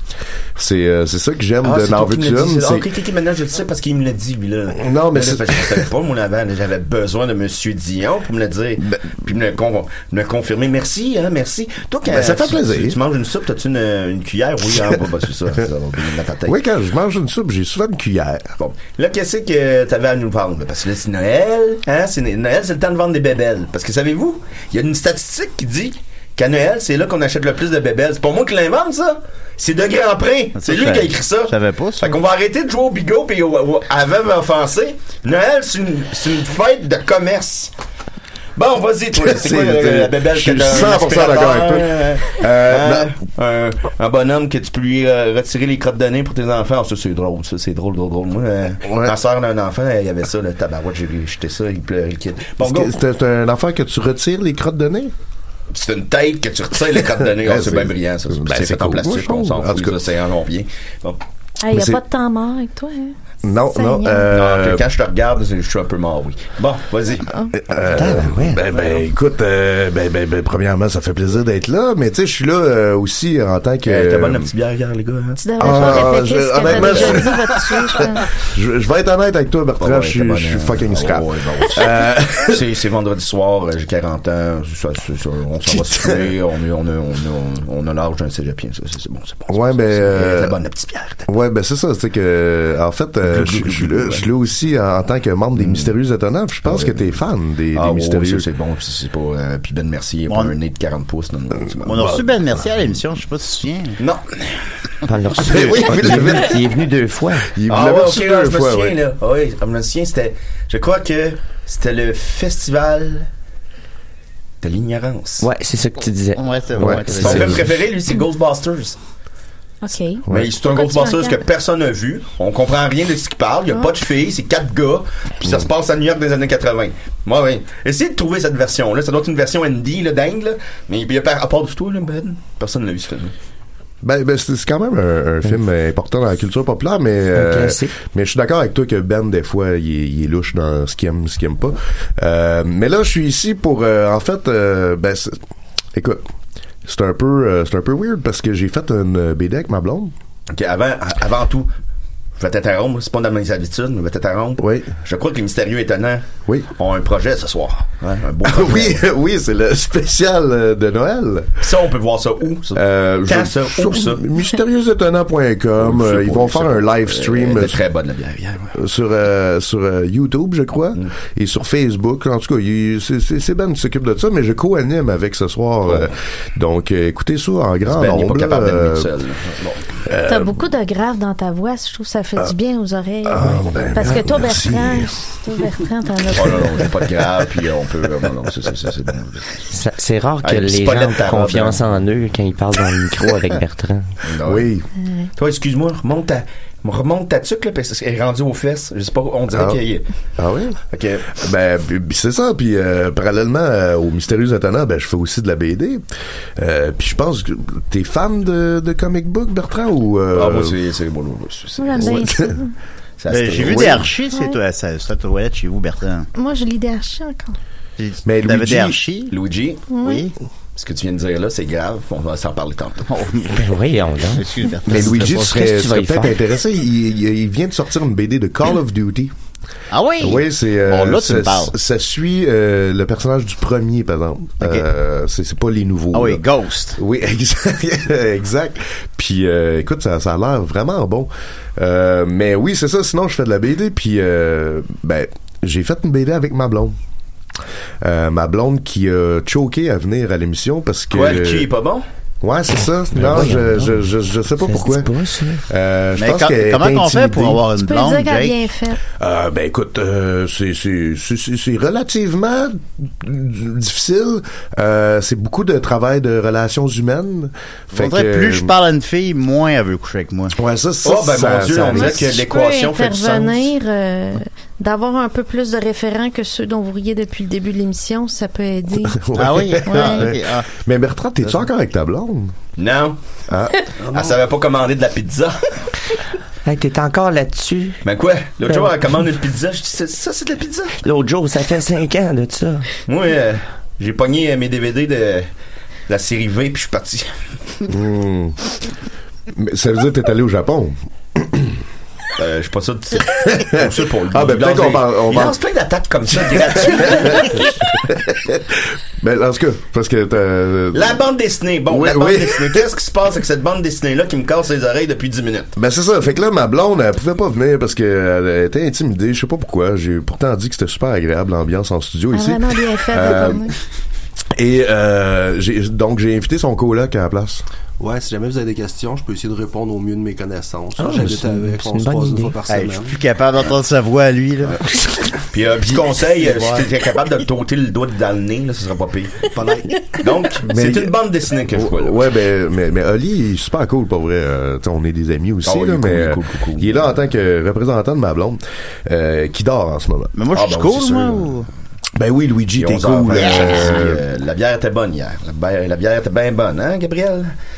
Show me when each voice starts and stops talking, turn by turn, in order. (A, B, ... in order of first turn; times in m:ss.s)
0:00.6-0:02.9 A
0:01.6-0:16.6 B
0:04.7-0:05.9 A
0:12.1-0:13.0 A
0:16.5-0:18.5 A
0:18.6-0:37.7 B
0:30.6-0:32.2 C
0:38.6-0:53.0 B
0:39.2-0:43.1 A
0:48.8-0:49.1 A
0:52.6-0:55.1 A
0:55.7-1:01.2 B
0:57.4-1:00.0 A
1:01.6-1:03.2 D
1:01.7-1:02.0 A
1:03.4-1:04.9 A
1:03.7-1:04.3 D
1:04.3-1:07.3 B
1:07.6-1:14.5 A
1:07.9-1:08.6 E
1:13.8-1:17.3 B
1:15.4-1:18.3 D
1:15.6-1:17.4 A
1:18.5-1:22.6 A
1:19.8-1:31.3 B
1:25.7-1:26.3 A
1:29.5-1:30.6 A
1:31.3-1:38.5 A
1:33.3-1:34.3 B
1:35.6-1:35.9 B
1:36.6-1:37.2 B
1:37.7-1:42.2 B
1:40.3-1:40.6 C
1:41.8-1:44.0 C
1:41.9-1:42.3 A
1:44.0-1:44.6 B
1:45.0-1:47.5 E
1:45.4-1:46.6 A
1:45.5-1:45.8 C
1:47.5-1:49.0 A
1:47.7-1:53.3 B
1:54.6-1:55.5 B
1:55.4-1:57.7 E
1:56.4-1:57.6 C
1:56.8-1:57.6 A
1:57.2-1:59.0 B
1:59.8-2:01.4 D
2:00.3-2:00.5 A
2:00.3-2:13.3 B
2:14.0-2:25.4 A
2:17.4-2:17.9 E
2:25.9-2:26.2 A
2:26.8-2:30.1 A
2:30.5-2:31.7 B
2:32.4-2:39.0 B
2:34.6-2:34.9 A
2:38.4-2:41.6 A
2:41.6-2:44.2 B
2:42.7-2:47.8 A
2:45.8-2:48.8 B
2:48.7-2:59.1 A
2:57.9-3:00.0 B
3:00.1-3:00.6 A
3:00.3-3:06.9 D
3:03.2-3:05.2 A
3:06.3-3:09.5 B
3:09.7-3:14.1 E
3:10.4-3:12.0 B
3:14.2-3:14.7 B
3:14.4-3:14.9 A
3:15.4-3:20.0 B
3:19.5-3:19.8 A
3:20.4-3:20.8 A
3:20.9-3:21.3 B
3:21.3-3:26.0 A
3:26.6-3:30.8 A
3:30.3-3:32.3 B
3:31.8-3:32.7 D
3:32.0-3:32.6 A
3:33.2-3:34.1 B
3:33.3-3:36.3 C
3:33.6-3:34.0 A
3:34.3-3:34.6 D
3:36.4-3:37.6 D
3:38.0-3:39.3 C
3:38.2-3:39.0 A
3:39.3-3:39.8 B
3:39.9-3:40.3 D
3:40.0-3:40.3 C
3:40.8-3:43.1 B
3:43.1-3:43.7 C
3:43.5-3:46.4 E
3:44.4-3:45.6 C
3:44.8-3:49.3 A
3:49.9-3:51.8 C
3:50.2-3:56.4 A
3:54.6-3:54.9 C
3:56.1-3:57.0 C
3:57.0-4:07.0 A
4:08.0-4:11.7 A
4:11.1-4:12.0 B
4:12.4-4:17.6 A
4:13.1-4:14.1 E
4:14.6-4:15.6 E
4:16.2-4:18.6 C
4:17.7-4:19.0 D
4:19.1-4:28.7 A
4:27.9-4:30.6 C
4:30.6-4:32.4 A
4:31.0-4:33.7 B
4:31.8-4:39.3 D
4:39.0-4:42.6 A
4:39.4-4:40.7 C
4:39.8-4:40.3 D
4:42.8-4:43.2 B
4:43.5-4:43.8 A
4:44.1-4:45.6 B
4:46.7-4:48.0 E
4:48.0-4:51.0 B
4:51.0-4:52.9 E
4:53.1-4:55.5 B
4:56.1-4:57.3 B
4:57.9-4:58.6 A
4:59.5-5:01.8 A
5:02.4-5:07.8 B
5:03.4-5:05.6 A
5:06.5-5:11.2 A
5:10.9-5:15.7 B
5:11.9-5:12.9 A
5:15.8-5:23.7 A
5:22.3-5:23.7 D
5:24.6-5:27.6 A
5:28.0-5:33.2 F
5:31.0-5:32.6 E
5:32.7-5:34.8 C
5:35.5-5:39.5 B
5:36.4-5:36.8 C
5:39.5-5:40.0 F
5:40.1-5:42.2 B
5:40.7-5:41.2 A
5:41.7-5:50.3 A
5:45.7-5:47.1 B
5:50.4-5:51.7 C
5:50.5-5:51.5 B
5:52.2-5:54.2 A
5:52.8-5:57.5 B
5:53.4-5:53.9 C